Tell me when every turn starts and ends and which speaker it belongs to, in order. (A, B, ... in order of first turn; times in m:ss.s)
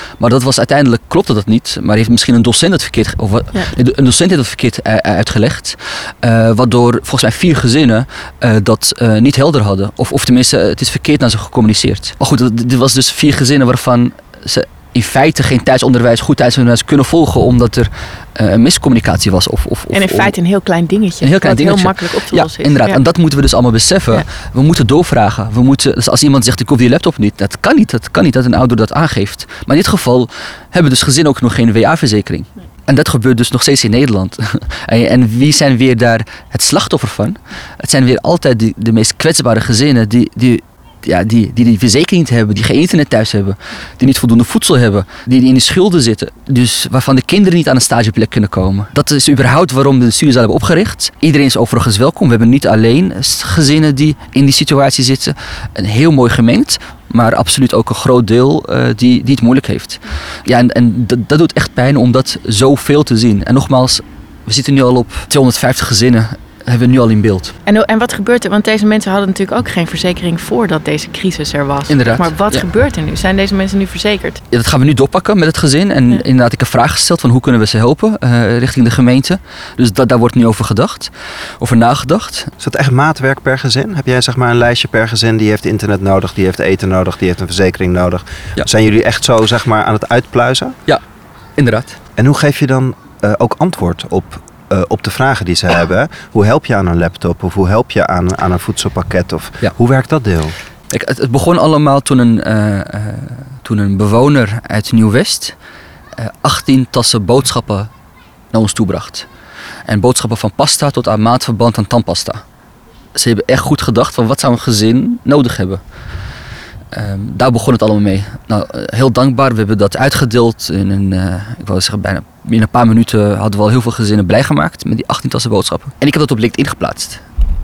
0:00.2-0:20.3 A
0:19.9-0:23.0 B
0:21.2-1:07.5 A
1:07.6-1:14.4 B
1:11.9-1:12.6 A
1:14.5-1:22.5 A
1:22.6-1:30.8 C
1:31.6-1:32.0 A
1:32.2-1:40.5 C
1:40.9-1:45.6 A
1:46.2-1:47.9 A
1:48.5-1:49.3 A
1:49.9-1:52.4 A
1:53.1-1:55.8 A
1:56.9-2:07.2 A